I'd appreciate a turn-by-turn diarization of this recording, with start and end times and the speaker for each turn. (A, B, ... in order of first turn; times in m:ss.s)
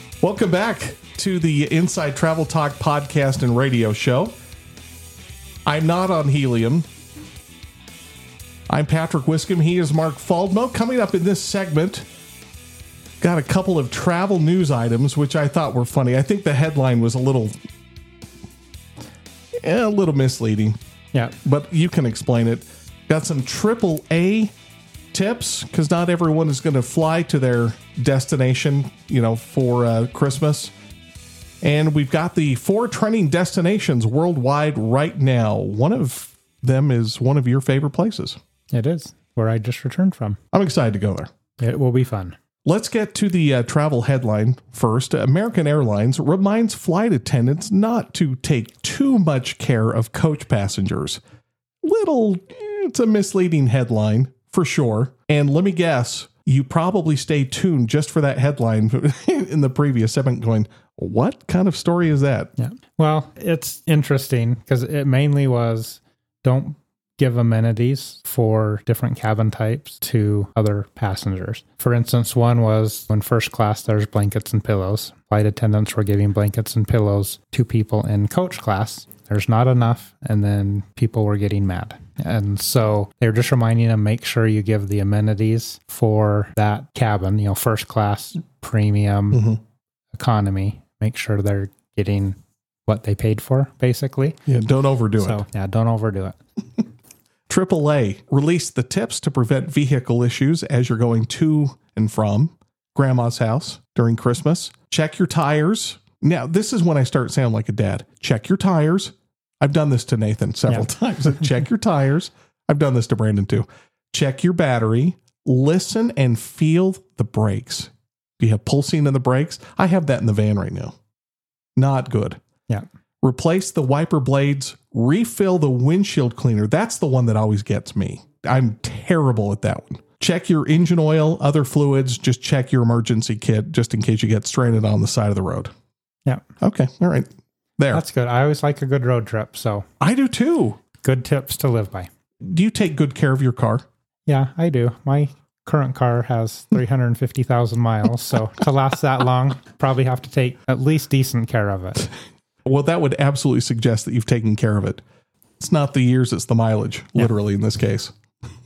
0:00.2-0:04.3 A
0:05.6-0:06.9 A
0:08.7-0:12.1 A
0:13.2-0:17.6 A
0:19.6-0:20.8 A
0:21.4-0:24.5 A
0:25.1-0:30.7 A
0:31.6-0:38.4 A
0:38.7-0:40.4 B
0:40.5-0:41.3 A
0:41.6-0:42.4 B
0:42.6-0:51.2 A
0:51.8-1:02.5 A
1:02.6-1:29.5 B
1:29.3-1:29.6 A
1:30.1-1:34.4 B
1:34.5-1:35.4 A
1:35.2-1:36.4 B
1:37.5-2:01.0 A
2:01.8-2:02.4 A
2:03.2-2:15.7 A
2:16.6-2:18.0 A
2:17.9-2:19.9 B
2:20.0-2:20.8 A
2:21.0-2:22.1 B
2:22.4-2:23.9 A
2:24.3-2:32.1 B
2:32.6-2:35.0 A
2:35.6-2:38.1 A